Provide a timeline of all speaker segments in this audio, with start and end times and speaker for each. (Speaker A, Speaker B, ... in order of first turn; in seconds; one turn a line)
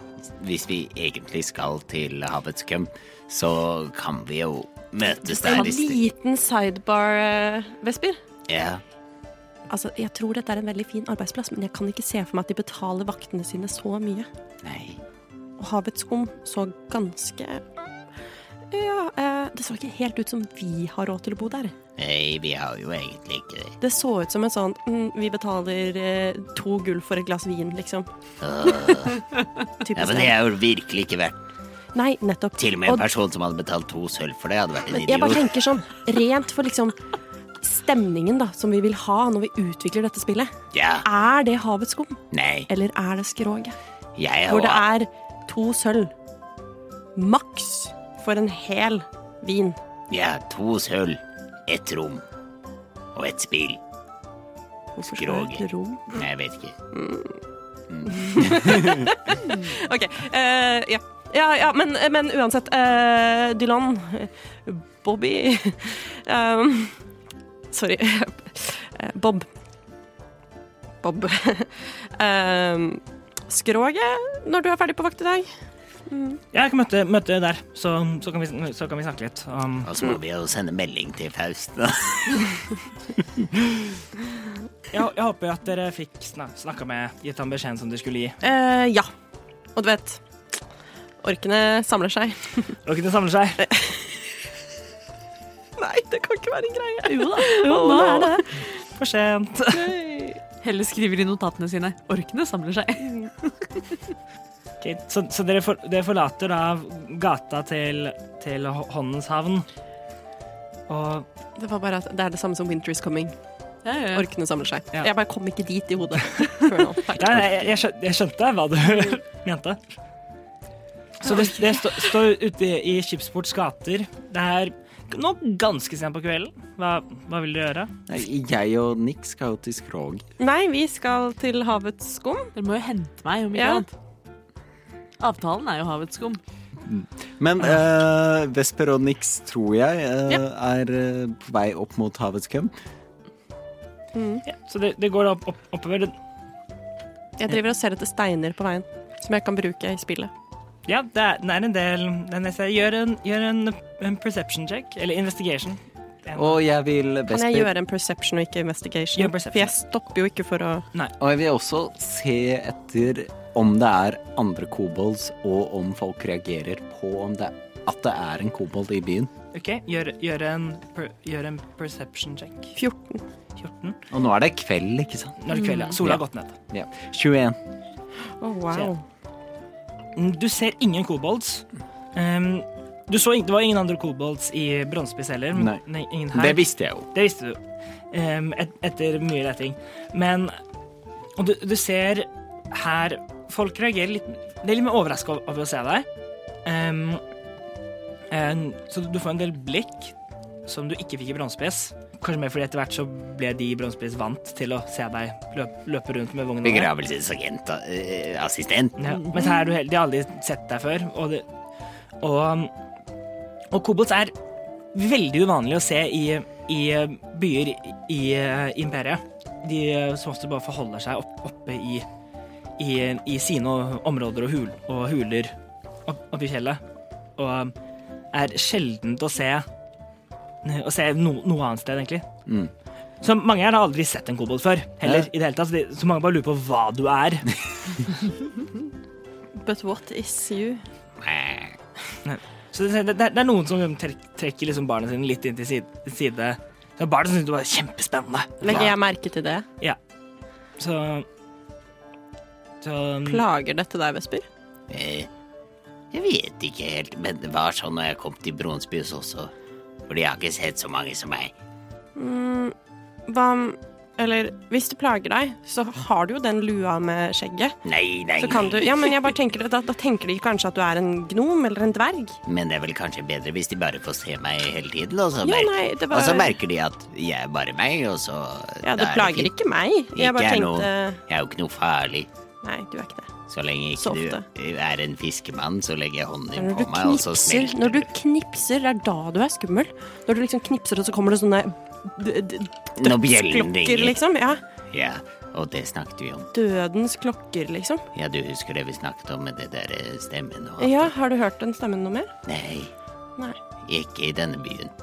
Speaker A: 0.2-6.0
Speaker B: 5.2-8.2
Speaker A: 8.5-8.8
Speaker B: 9.7-14.3
Speaker A: 14.6-15.0
Speaker B: 15.6-17.6
Speaker B: 18.7-21.7
Speaker A: 22.0-23.8
Speaker B: 23.8-28.1
Speaker A: 28.4-29.2
Speaker B: 29.8-30.4
Speaker A: 29.9-31.4
Speaker B: 31.9-33.0
Speaker A: 32.6-35.5
Speaker B: 34.9-36.9
Speaker B: 37.6-40.5
Speaker A: 40.7-41.1
Speaker B: 41.0-43.8
Speaker A: 42.3-42.7
Speaker A: 44.2-44.8
Speaker B: 44.5-46.1
Speaker B: 47.1-49.8
Speaker A: 50.1-52.2
Speaker A: 53.1-53.8
Speaker B: 55.0-56.2
Speaker A: 55.1-56.8
Speaker B: 56.9-57.4
Speaker A: 57.9-58.6
Speaker B: 58.0-67.0
Speaker B: 67.7-69.5
Speaker B: 71.0-75.5
Speaker B: 76.1-76.4
Speaker C: 76.5-79.9
Speaker A: 79.8-82.6
Speaker C: 84.9-88.4
Speaker B: 88.4-89.1
Speaker B: 89.8-90.2
Speaker B: 91.2-92.8
Speaker C: 92.8-93.6
Speaker B: 93.6-94.2
Speaker B: 95.8-98.6
Speaker D: 97.0-98.5
Speaker C: 99.0-99.9
Speaker B: 99.7-100.4
Speaker D: 100.6-103.7
Speaker C: 104.8-109.7
Speaker C: 110.9-111.2
Speaker B: 111.6-113.3
Speaker D: 113.8-114.2
Speaker B: 114.1-117.5
Speaker C: 117.1-119.8
Speaker C: 121.2-127.9
Speaker E: 128.1-130.2
Speaker B: 130.4-132.5
Speaker D: 132.5-133.9
Speaker B: 133.5-133.8
Speaker D: 135.2-136.4
Speaker E: 136.9-142.7
Speaker B: 144.1-144.4
Speaker C: 144.4-146.1
Speaker B: 147.4-150.3
Speaker C: 150.9-156.6
Speaker E: 156.3-157.7
Speaker B: 157.3-160.8
Speaker C: 159.2-159.7
Speaker E: 161.2-169.3
Speaker C: 169.5-172.8
Speaker B: 172.8-173.2
Speaker C: 173.6-174.0
Speaker E: 174.1-177.6
Speaker C: 175.4-176.5
Speaker B: 178.4-179.0
Speaker C: 180.2-187.6
Speaker E: 185.5-185.8
Speaker E: 186.3-187.1
Speaker C: 188.1-190.5
Speaker C: 191.3-196.1
Speaker C: 196.6-197.2
Speaker C: 198.3-200.1
Speaker C: 200.6-206.9
Speaker A: 206.6-209.1
Speaker C: 209.0-211.4
Speaker C: 212.2-212.7
Speaker C: 213.7-214.3
Speaker C: 214.9-222.1
Speaker C: 222.8-225.5
Speaker C: 226.1-226.8
Speaker C: 227.4-227.7
Speaker C: 228.3-229.6
Speaker C: 230.6-232.3
Speaker C: 233.2-237.5
Speaker B: 239.6-240.8
Speaker A: 241.2-241.8
Speaker C: 242.2-248.9
Speaker B: 248.6-249.7
Speaker A: 248.7-248.9
Speaker C: 250.8-251.2
Speaker C: 252.8-253.4
Speaker B: 253.3-254.4
Speaker A: 254.9-255.3
Speaker A: 256.1-259.5
Speaker A: 260.1-261.5
Speaker B: 262.1-262.7
Speaker B: 263.3-267.8
Speaker A: 267.8-269.1
Speaker B: 268.4-272.4
Speaker A: 272.4-279.5
Speaker B: 275.4-276.6
Speaker B: 278.8-281.2
Speaker A: 280.1-282.3
Speaker B: 282.6-283.3
Speaker A: 283.5-288.0
Speaker B: 284.0-284.4
Speaker B: 286.6-294.6
Speaker A: 293.0-294.2
Speaker A: 294.9-296.5
Speaker B: 296.5-298.0
Speaker A: 298.1-301.1
Speaker B: 300.8-302.3
Speaker A: 302.4-302.9
Speaker A: 303.9-304.9